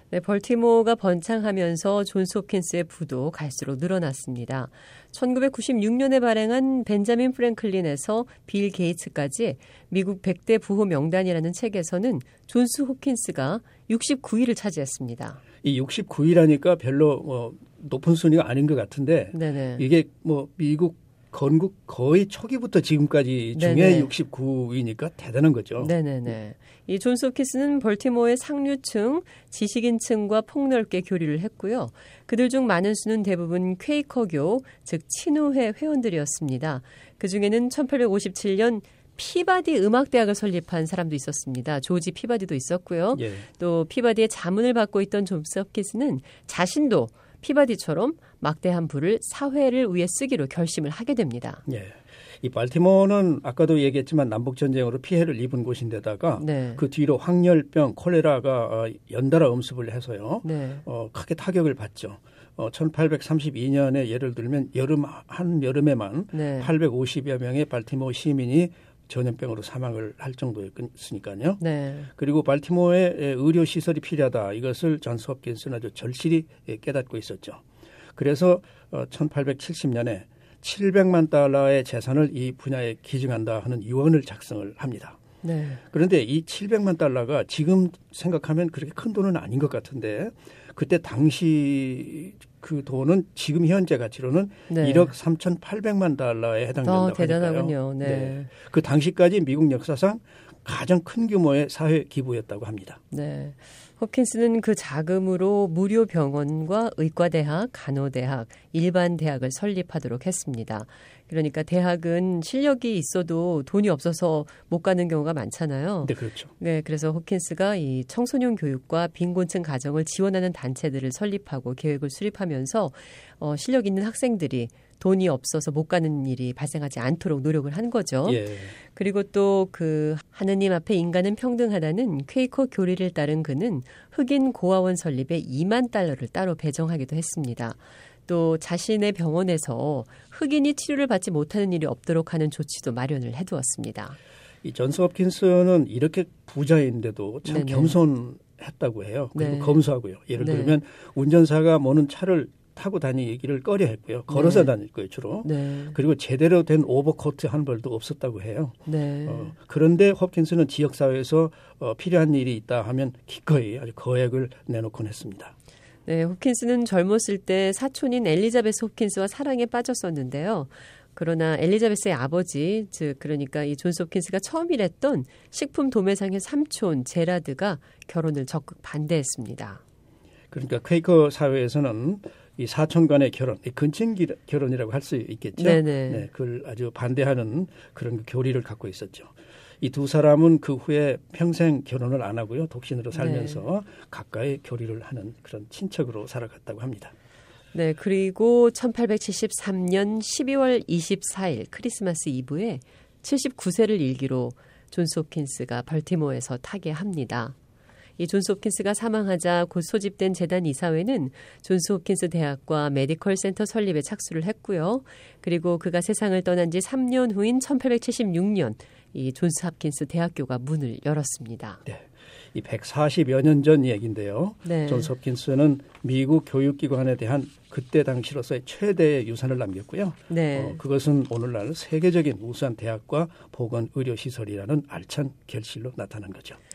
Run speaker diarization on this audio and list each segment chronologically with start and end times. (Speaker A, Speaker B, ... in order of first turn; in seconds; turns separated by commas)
Speaker A: 0.1-15.4, Speaker B: 15.6-25.9, Speaker A: 19.3-19.8, Speaker A: 23.6-24.1, Speaker A: 25.8-51.6, Speaker B: 43.1-43.5, Speaker B: 51.7-71.6, Speaker A: 56.4-56.8, Speaker A: 60.4-60.8, Speaker A: 66.3-66.7, Speaker A: 71.6-72.1, Speaker B: 72.2-77.6, Speaker B: 78.2-85.2, Speaker A: 85.4-85.8, Speaker B: 85.9-103.0, Speaker A: 94.7-95.1, Speaker A: 96.8-98.5, Speaker A: 103.1-144.2, Speaker B: 116.0-116.5, Speaker B: 128.2-128.8, Speaker B: 144.6-165.5, Speaker A: 147.4-148.0, Speaker A: 149.3-149.8, Speaker A: 150.4-150.8, Speaker A: 154.3-154.7, Speaker A: 155.4-155.9, Speaker A: 158.9-159.5, Speaker A: 166.1-179.8, Speaker B: 180.5-197.1, Speaker A: 185.6-186.3, Speaker A: 193.1-193.6, Speaker A: 197.7-207.6, Speaker A: 208.2-221.8, Speaker B: 221.9-236.6, Speaker A: 224.6-225.1, Speaker A: 230.3-230.8